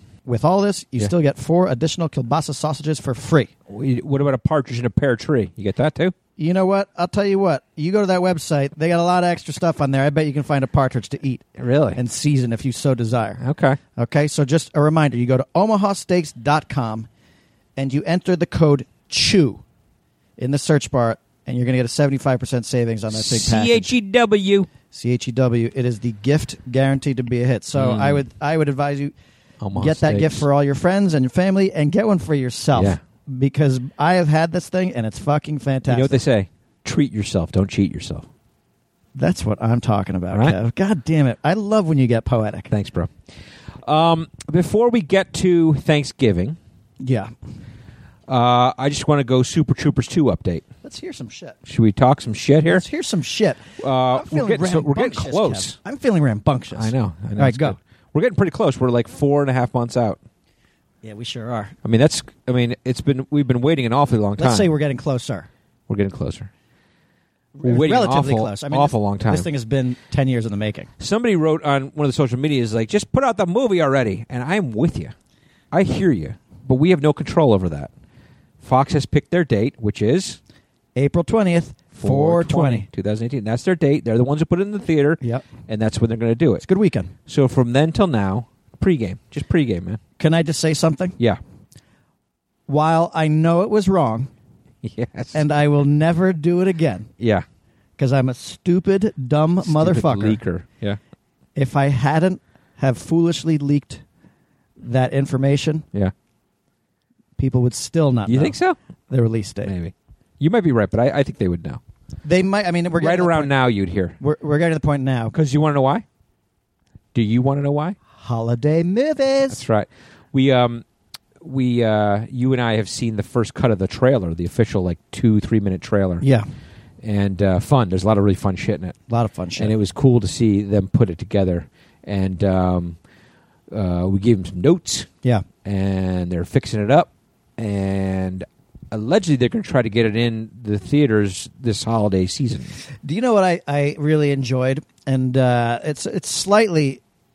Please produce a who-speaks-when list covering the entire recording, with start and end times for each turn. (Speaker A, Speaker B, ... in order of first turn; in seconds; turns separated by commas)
Speaker A: 0.2-3.5, Speaker B: 3.7-6.1, Speaker A: 6.4-13.4, Speaker B: 11.6-12.0, Speaker B: 13.4-13.8, Speaker A: 13.9-17.1, Speaker A: 17.8-19.6, Speaker A: 20.4-23.9, Speaker B: 23.1-24.7, Speaker A: 24.9-29.1, Speaker B: 27.7-28.2, Speaker B: 29.6-30.4, Speaker A: 29.7-36.2, Speaker B: 32.7-33.0, Speaker B: 35.9-38.2, Speaker A: 39.1-42.7, Speaker B: 40.3-40.5, Speaker B: 42.7-43.1, Speaker B: 43.8-46.6, Speaker A: 47.0-47.3, Speaker B: 48.3-50.6, Speaker A: 50.8-51.6, Speaker B: 51.6-52.8, Speaker A: 52.7-57.8, Speaker B: 53.8-55.8, Speaker B: 56.8-60.2, Speaker A: 61.0-61.7, Speaker B: 61.8-64.7, Speaker A: 64.4-65.5, Speaker B: 65.9-66.5, Speaker A: 67.5-70.9, Speaker B: 67.6-69.5, Speaker B: 71.0-75.1, Speaker B: 75.7-77.9, Speaker B: 78.6-80.4, Speaker A: 81.0-82.9, Speaker B: 81.9-86.6, Speaker A: 86.6-87.1, Speaker B: 87.3-90.0, Speaker A: 90.2-91.2, Speaker A: 92.7-94.3, Speaker B: 94.8-95.4, Speaker A: 95.3-97.1, Speaker B: 97.2-97.4, Speaker A: 98.0-100.4, Speaker B: 99.6-101.0, Speaker A: 101.5-104.0, Speaker A: 104.8-105.8, Speaker A: 107.4-108.6, Speaker B: 108.3-108.8, Speaker A: 109.1-109.7, Speaker B: 109.6-111.8, Speaker A: 112.2-113.5, Speaker B: 113.0-114.2, Speaker A: 114.2-115.3, Speaker B: 115.3-116.0, Speaker B: 117.1-118.0, Speaker A: 118.2-119.6, Speaker B: 119.5-120.8, Speaker B: 121.4-126.2, Speaker A: 126.2-126.5, Speaker B: 127.0-129.0, Speaker A: 129.1-129.7, Speaker B: 129.6-133.0, Speaker B: 133.7-135.1, Speaker B: 135.6-142.8, Speaker A: 143.0-147.0